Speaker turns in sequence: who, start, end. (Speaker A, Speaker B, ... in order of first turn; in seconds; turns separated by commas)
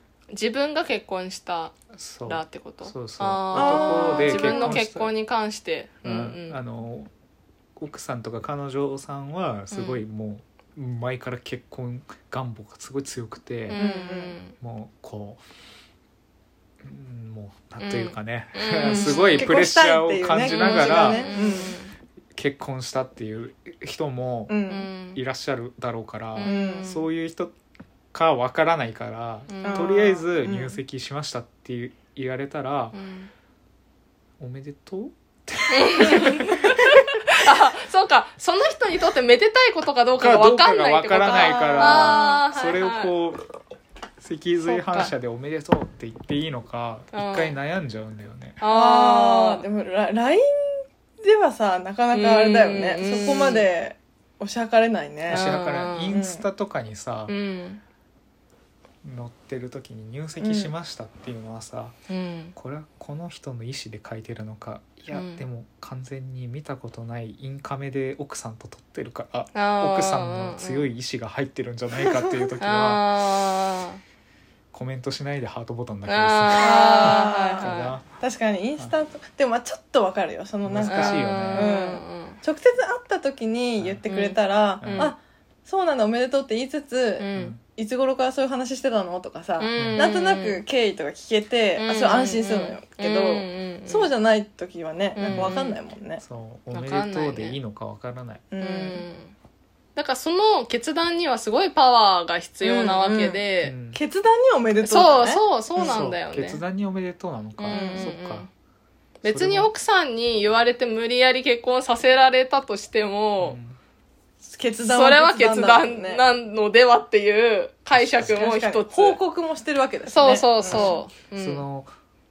Speaker A: 0.3-1.7, Speaker B: 1.9-5.1, Speaker A: 2.3-6.6, Speaker C: 3.5-4.8, Speaker B: 6.0-7.1, Speaker B: 7.8-13.8, Speaker A: 9.7-10.0, Speaker A: 13.7-14.6, Speaker C: 13.7-14.4, Speaker B: 14.6-15.4, Speaker B: 16.8-21.4, Speaker A: 17.8-19.5, Speaker C: 18.8-21.8, Speaker A: 20.4-21.9, Speaker B: 22.3-24.6, Speaker C: 24.5-24.9, Speaker A: 24.7-25.2, Speaker B: 25.1-27.5, Speaker A: 26.4-27.0, Speaker C: 26.4-26.9, Speaker B: 28.1-33.0, Speaker A: 29.5-29.9, Speaker C: 29.6-30.8, Speaker A: 32.9-33.3, Speaker B: 34.4-37.0, Speaker A: 35.7-43.1, Speaker B: 40.2-43.4, Speaker C: 41.2-42.4, Speaker B: 44.2-48.6, Speaker A: 44.6-45.1, Speaker A: 47.1-47.5, Speaker A: 48.6-49.6, Speaker C: 48.7-56.4, Speaker A: 52.1-53.7, Speaker B: 55.3-57.3, Speaker A: 55.3-56.1, Speaker A: 57.3-57.8, Speaker B: 59.0-62.0, Speaker C: 60.4-60.7, Speaker A: 62.1-62.5, Speaker B: 62.5-73.1, Speaker A: 65.1-65.4, Speaker A: 69.5-70.9, Speaker C: 72.0-72.4, Speaker A: 72.6-74.0, Speaker B: 74.7-78.1, Speaker A: 76.1-78.0, Speaker C: 76.6-96.2, Speaker B: 80.6-81.7, Speaker A: 80.8-82.4, Speaker A: 84.1-85.2, Speaker B: 84.8-85.1, Speaker A: 87.2-87.5, Speaker B: 87.3-87.6, Speaker A: 89.6-90.6, Speaker B: 89.8-90.1, Speaker A: 91.8-94.1, Speaker A: 95.2-95.8, Speaker B: 95.2-95.6, Speaker B: 96.2-98.5, Speaker A: 96.7-97.6, Speaker C: 98.5-99.0, Speaker A: 98.6-99.3, Speaker A: 100.0-103.7, Speaker C: 102.6-106.0, Speaker B: 103.6-104.0, Speaker A: 104.8-106.6, Speaker B: 105.8-108.5, Speaker A: 107.6-108.5, Speaker C: 107.7-108.1, Speaker A: 109.2-113.6, Speaker B: 109.2-109.7, Speaker B: 113.4-113.8, Speaker C: 114.4-116.2, Speaker A: 114.8-119.2, Speaker B: 117.9-118.4, Speaker C: 118.2-121.0, Speaker A: 120.1-121.6, Speaker B: 120.7-121.9